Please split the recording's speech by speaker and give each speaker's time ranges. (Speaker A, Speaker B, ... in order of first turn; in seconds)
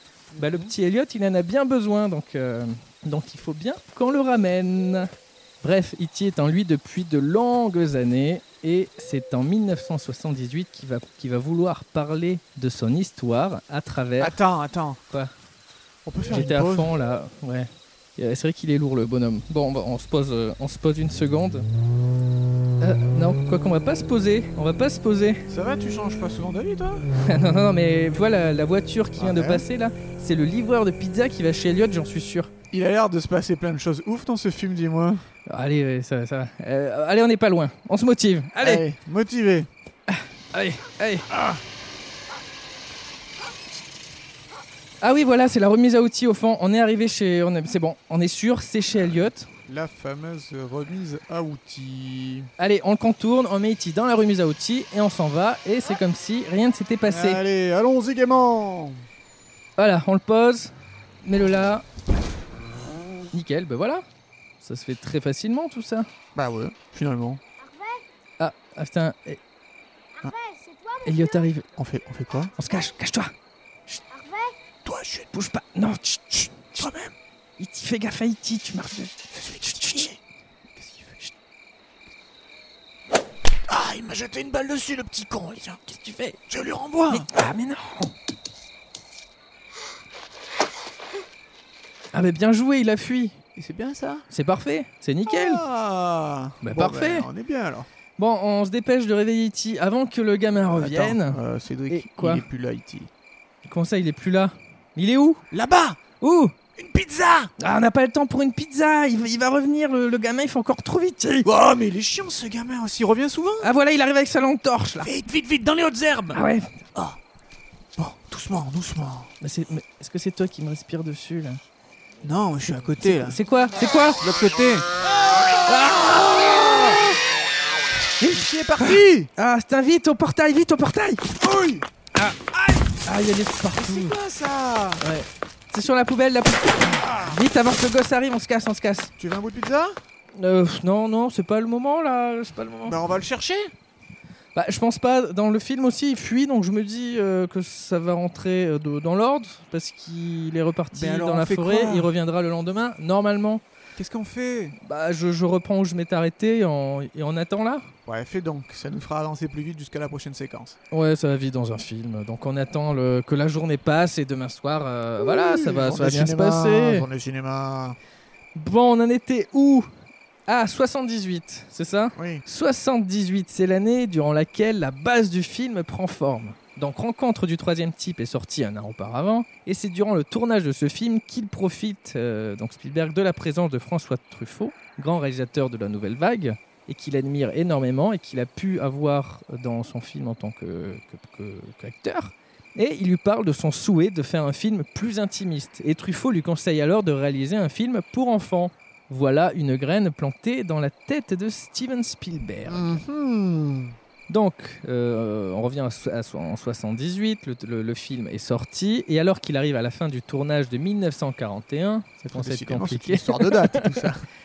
Speaker A: 0.3-0.7, 14.2-15.0, 16.1-16.9, 25.5-27.1, 29.2-29.6, 32.7-35.3, 38.6-39.7, 41.3-41.6, 49.7-52.5, 57.1-59.0, 66.3-67.4, 71.8-72.5, 74.8-75.3, 76.8-77.2, 79.3-80.2, 80.8-81.2, 83.7-85.8, 86.5-87.3, 93.6-94.2, 95.3-97.9, 100.6-103.1, 105.5-106.0, 106.8-107.5, 111.4-113.7, 115.0-116.4, 118.0-119.3, 122.2-123.4, 124.2-127.1, 128.2-129.3, 131.4-131.9, 132.5-133.0, 133.7-135.0, 136.9-137.4, 139.2-140.0, 142.8-143.7, 150.9-152.1, 154.0-154.8, 158.1-160.8, 165.2-168.0, 172.2-172.4, 202.7-203.9, 212.3-214.2
Speaker B: 0.4-5.1, 5.6-14.4, 16.3-21.7, 22.8-25.4, 27.2-32.5, 35.5-38.8, 40.1-41.3, 45.0-49.5, 52.6-57.4, 59.8-61.9, 63.3-64.0, 64.6-66.1, 68.4-69.4, 71.0-71.7, 72.6-73.3, 75.3-76.9, 77.6-80.1, 85.9-86.4, 87.1-88.1, 92.1-93.4, 94.3-95.6, 96.6-97.3, 98.2-102.4, 103.7-105.4, 106.2-106.6, 107.6-111.5, 113.6-115.1, 116.3-116.8, 119.4-121.6, 123.0-124.2, 125.7-126.9, 128.2-131.3, 133.0-134.2, 135.0-139.1, 140.4-143.0, 144.6-153.6, 154.8-157.9, 160.9-167.1, 168.6-169.9, 170.5-203.0, 204.3-214.1
Speaker C: 67.6-68.0, 70.2-71.5, 72.6-72.9, 74.1-74.5